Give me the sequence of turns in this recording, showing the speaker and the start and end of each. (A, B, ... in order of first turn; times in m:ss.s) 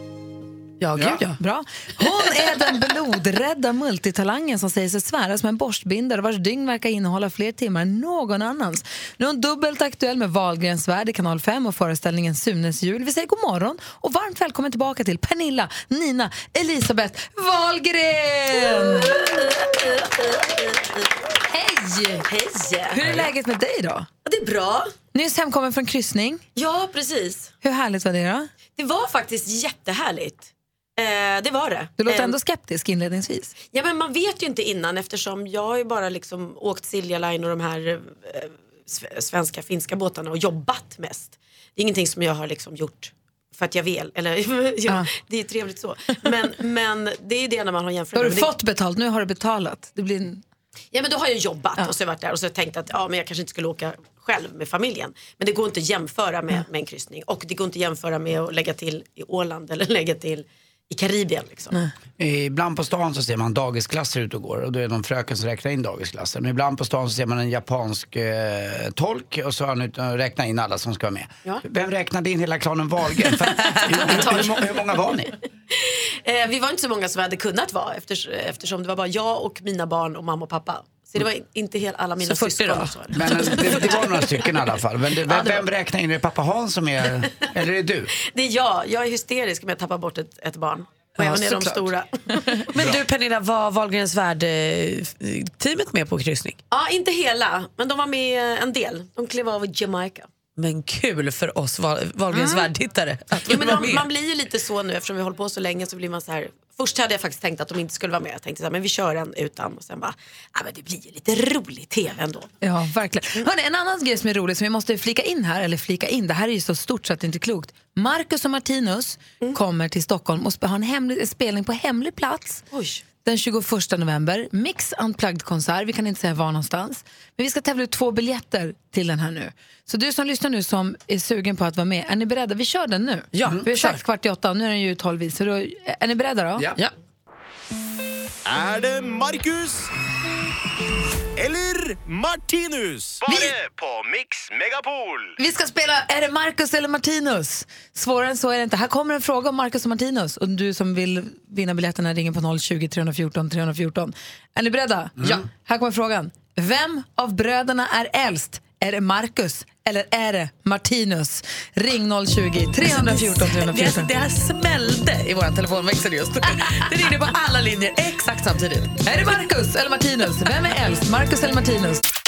0:00.8-0:01.4 A
0:01.4-0:19.2 B
0:18.7-0:21.1 C
0:21.5-0:22.2 B
0:22.2-0:23.0 C
0:22.9-0:24.1 B
0:24.2-0:24.9 C
0:25.1-0:26.4 B
0:26.6-0:27.5 C
0:27.6-0:28.5 B
0:28.8-0:32.4 C
0:32.0-0:33.5 B
0:33.7-0:48.5 C
0:48.1-0:50.4 B
0:50.9-1:01.7 C
1:02.2-1:15.3 D
1:14.0-1:14.7 C
1:15.7-1:24.5 C
1:22.2-1:22.9 A
1:23.1-1:28.1 D
1:25.2-1:25.6 C
1:28.3-1:32.3 C
1:31.1-1:31.5 A
1:31.2-1:31.8 B
1:32.7-1:36.6 A
1:36.7-1:40.3 C
1:40.6-1:44.1 A
1:42.3-1:42.7 C
1:43.4-1:52.5 C
1:52.6-2:02.6 B
2:02.7-2:03.0 C
2:03.2-2:16.7 B
2:13.3-2:14.0 A
2:18.4-2:19.9 E
2:21.4-2:25.3 E
2:23.3-2:23.5 B
2:25.4-2:44.1 B
2:35.2-2:35.4 D
2:42.8-2:48.9 A
2:49.0-2:52.0 B